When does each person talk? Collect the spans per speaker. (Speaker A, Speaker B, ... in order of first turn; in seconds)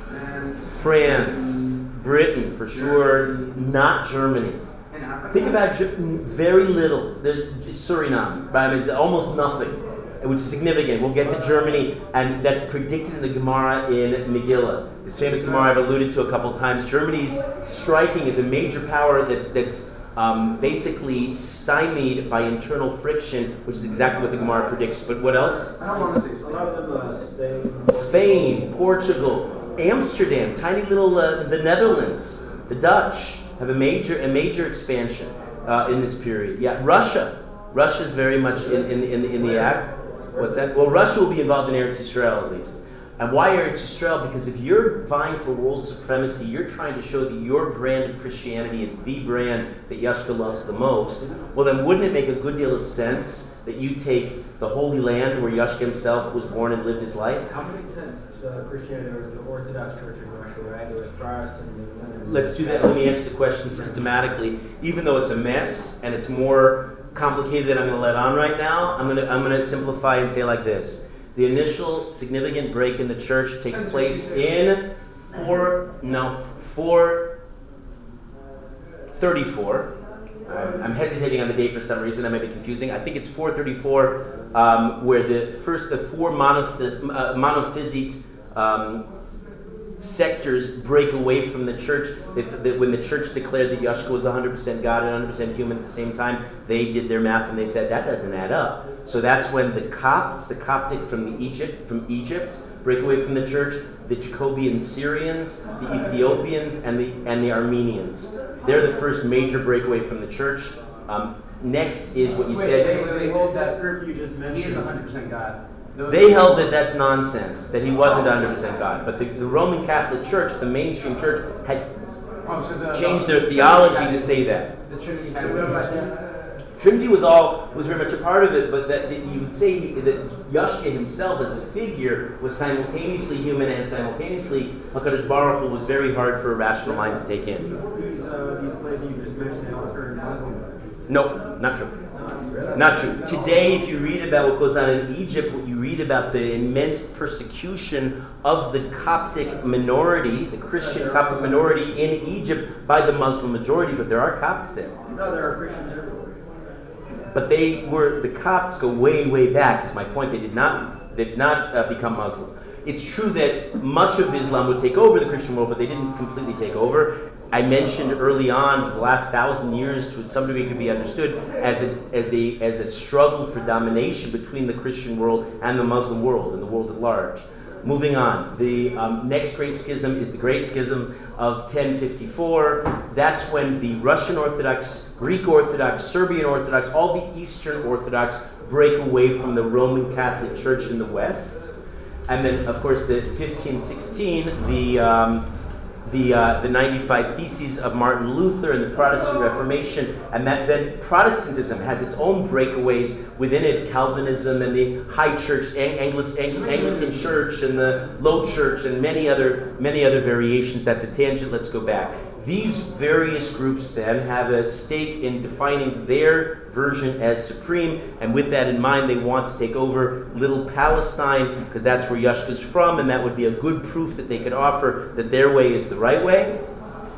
Speaker A: 0.1-1.7, 2.8-3.5, 4.9-5.7, 25.8-26.6, 73.7-74.7, 112.5-113.8, 114.4-116.7, 122.4-126.2, 142.1-143.8
Speaker B: 0.7-4.6, 5.3-25.8, 27.9-57.5, 62.2-77.3, 79.2-79.9, 80.5-89.1, 90.0-112.9, 116.1-121.9, 122.9-124.7, 126.8-137.7, 141.1-142.0, 142.7-154.9, 157.3-191.7, 192.3-195.5, 196.0-226.6
Speaker C: 25.8-28.8, 57.5-63.0, 112.5-114.9, 136.9-141.0, 142.5-142.8, 150.8-151.8, 155.1-156.4